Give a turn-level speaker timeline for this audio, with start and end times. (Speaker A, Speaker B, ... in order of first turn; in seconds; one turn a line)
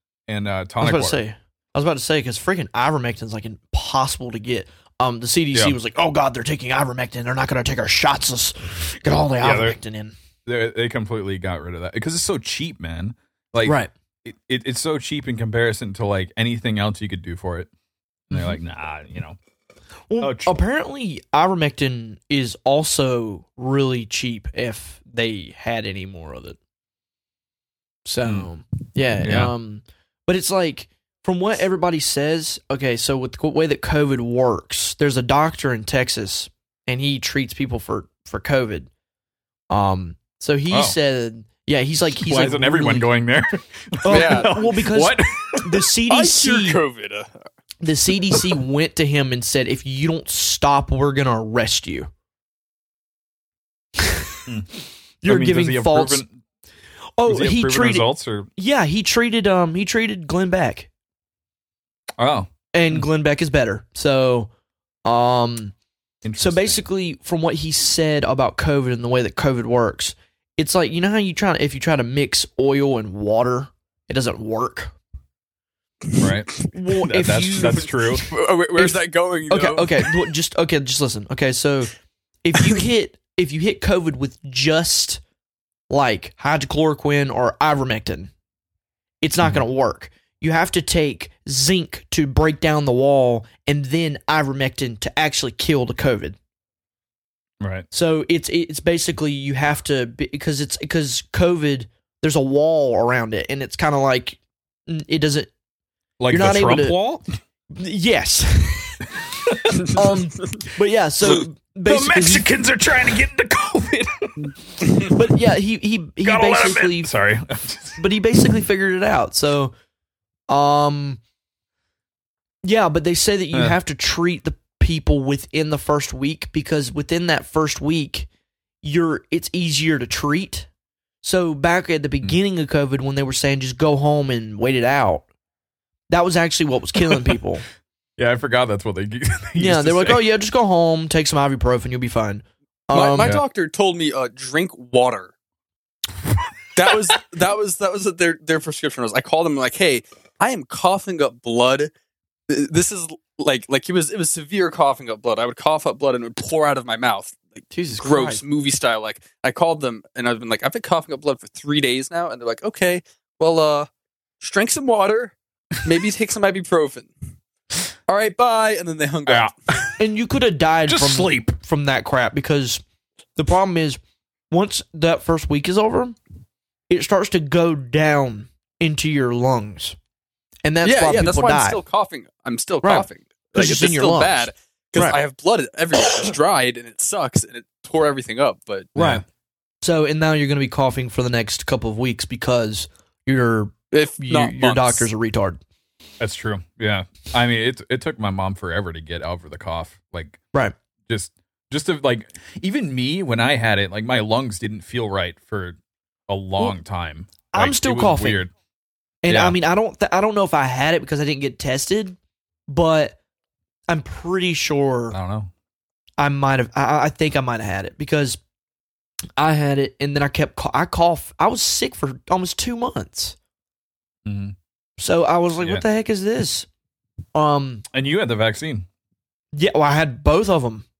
Speaker A: 0.3-1.2
Speaker B: 0.8-10.1
Speaker A: 9.4-9.8
Speaker A: 10.4-17.7
Speaker B: 13.7-13.9
Speaker A: 18.3-19.4
Speaker B: 18.3-18.6
Speaker B: 20.1-26.6
Speaker A: 20.2-20.6
Speaker B: 28.1-38.9
Speaker A: 29.2-29.5
Speaker B: 39.7-43.1
Speaker A: 40.7-41.0
Speaker A: 42.2-45.8
Speaker B: 44.0-46.8
Speaker C: 44.1-44.9
Speaker C: 46.1-47.4
Speaker B: 47.8-52.1
Speaker B: 54.0-54.4
Speaker A: 54.5-54.7
Speaker B: 55.2-56.2
Speaker A: 55.2-56.3
Speaker B: 57.2-60.9
Speaker A: 57.3-58.5
Speaker A: 62.2-63.1
Speaker B: 62.7-64.5
Speaker B: 65.0-65.7
Speaker A: 66.2-66.8
Speaker B: 66.4-74.9
Speaker A: 76.2-78.2
Speaker B: 76.7-81.9
Speaker C: 77.6-80.1
Speaker B: 82.4-85.2
Speaker B: 85.9-88.3
Speaker B: 89.2-96.4
Speaker A: 97.6-97.9
Speaker B: 97.9-105.5
Speaker A: 106.2-107.2
Speaker B: 106.3-107.0
Speaker B: 107.8-109.1
Speaker A: 109.5-109.9
Speaker C: 109.9-110.6
Speaker B: 109.9-112.5
Speaker A: 111.9-115.2
Speaker B: 115.0-117.1
Speaker A: 116.2-118.0
Speaker B: 118.0-119.7
Speaker B: 120.5-121.2
Speaker B: 122.6-128.3
Speaker B: 128.8-130.7
Speaker B: 131.2-135.3
Speaker B: 136.1-137.6
Speaker A: 138.2-140.3
Speaker B: 139.6-143.4
Speaker C: 142.9-145.3
Speaker C: 146.8-151.9
Speaker C: 152.5-163.9
Speaker B: 157.7-158.4
Speaker C: 164.4-167.1
Speaker C: 168.1-169.6
Speaker A: 169.3-169.9
Speaker B: 170.0-172.8
Speaker A: 170.9-171.6
Speaker B: 173.4-174.0
Speaker B: 174.5-176.2
Speaker B: 176.9-180.0
Speaker B: 180.6-181.8
Speaker C: 180.8-188.9
Speaker B: 182.8-185.2
Speaker B: 188.9-189.2
Speaker A: 188.9-189.2
Speaker B: 189.8-195.6
Speaker C: 193.9-195.1
Speaker A: 196.2-200.4
Speaker A: 201.1-205.8
Speaker A: 206.3-208.5
Speaker B: 207.5-208.4
Speaker B: 209.2-212.2
Speaker A: 209.3-209.6
Speaker B: 212.7-213.2
Speaker B: 213.9-215.2
Speaker A: 215.1-215.5
Speaker B: 216.2-218.4
Speaker B: 219.4-223.4
Speaker A: 224.3-224.6
Speaker B: 225.0-226.7
Speaker B: 227.3-227.8
Speaker A: 227.9-228.9
Speaker B: 229.5-230.9